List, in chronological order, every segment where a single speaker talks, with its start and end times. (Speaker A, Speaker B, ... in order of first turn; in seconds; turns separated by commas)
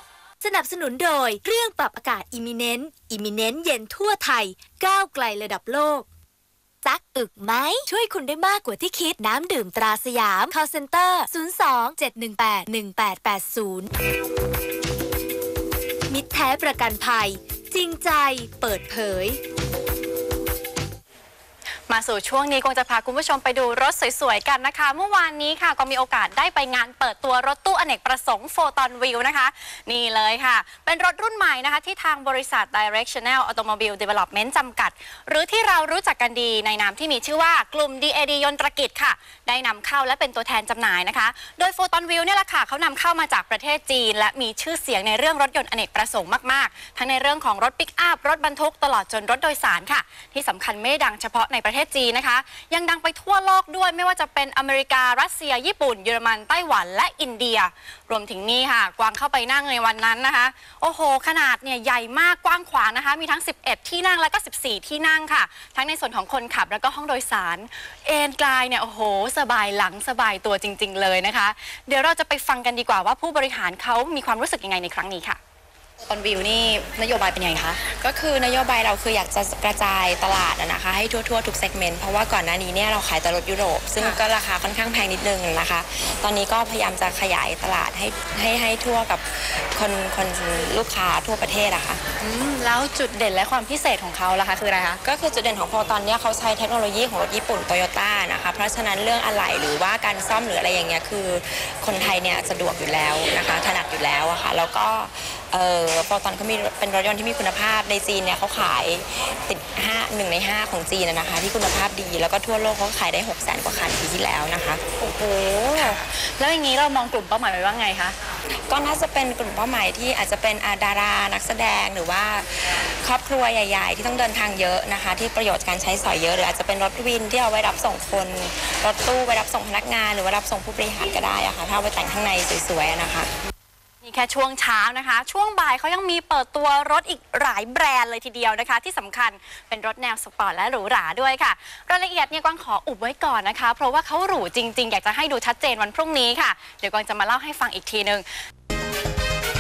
Speaker A: 0.4-6.1, Speaker A: 6.8-13.9, Speaker A: 16.1-19.4, Speaker B: 21.9-75.4, Speaker B: 76.0-77.9, Speaker C: 77.9-92.0, Speaker B: 92.2-95.0, Speaker C: 95.0-114.8, Speaker B: 115.0-118.2, Speaker C: 118.7-133.3, Speaker B: 134.0-148.3